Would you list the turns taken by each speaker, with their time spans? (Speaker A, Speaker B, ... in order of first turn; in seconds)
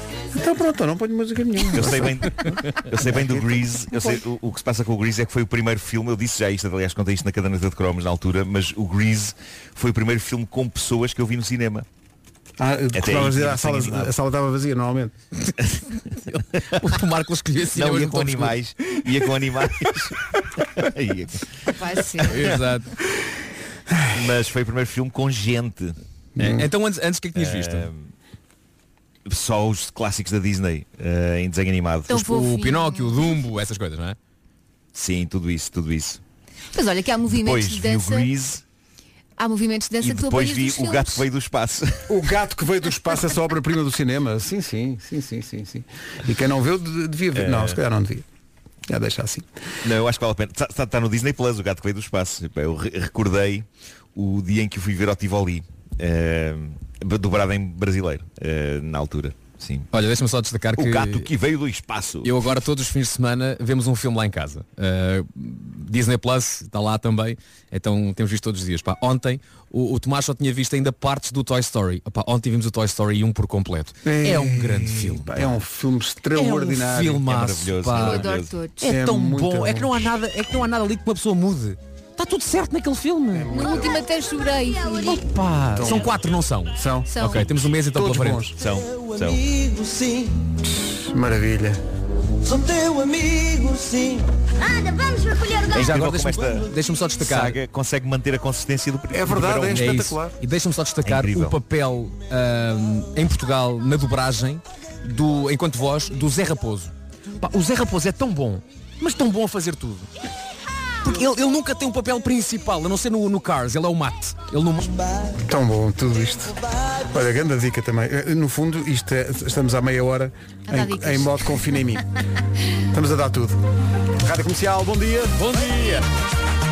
Speaker A: 0.3-3.9, 12.6-15.1, 23.9-24.2, 26.4-26.7, 42.1-48.2, 48.9-49.5, 74.0-77.3, 78.8-80.2, 83.3-84.0, 85.8-86.2, 86.7-87.1, 87.9-88.6, 90.7-91.8, 99.1-100.4, 115.5-122.0, 122.9-123.6, 124.2-125.4
Speaker B: 1.7-11.8, 12.9-14.1, 17.7-20.1, 20.8-21.4, 24.1-26.0, 27.4-28.1, 29.3-32.2, 34.9-36.2, 37.3-38.6, 40.0-42.1, 47.4-47.8, 49.8-59.9, 60.8-62.4, 77.2-78.6, 88.6-89.4, 95.7-99.9, 101.0-101.6
Speaker C: 16.3-18.6, 22.3-22.9, 26.4-27.9, 32.1-34.2, 59.9-61.3, 62.2-75.3, 76.3-78.3, 78.8-83.5, 85.0-88.5, 95.7-97.6, 99.3-110.1, 111.0-114.9, 125.4-126.0
Speaker D: 21.7-22.4, 32.1-33.4, 36.7-38.3, 39.4-41.2, 78.0-78.9, 83.5-85.2, 87.0-87.5, 120.7-121.8
Speaker E: 88.8-90.5, 92.4-94.3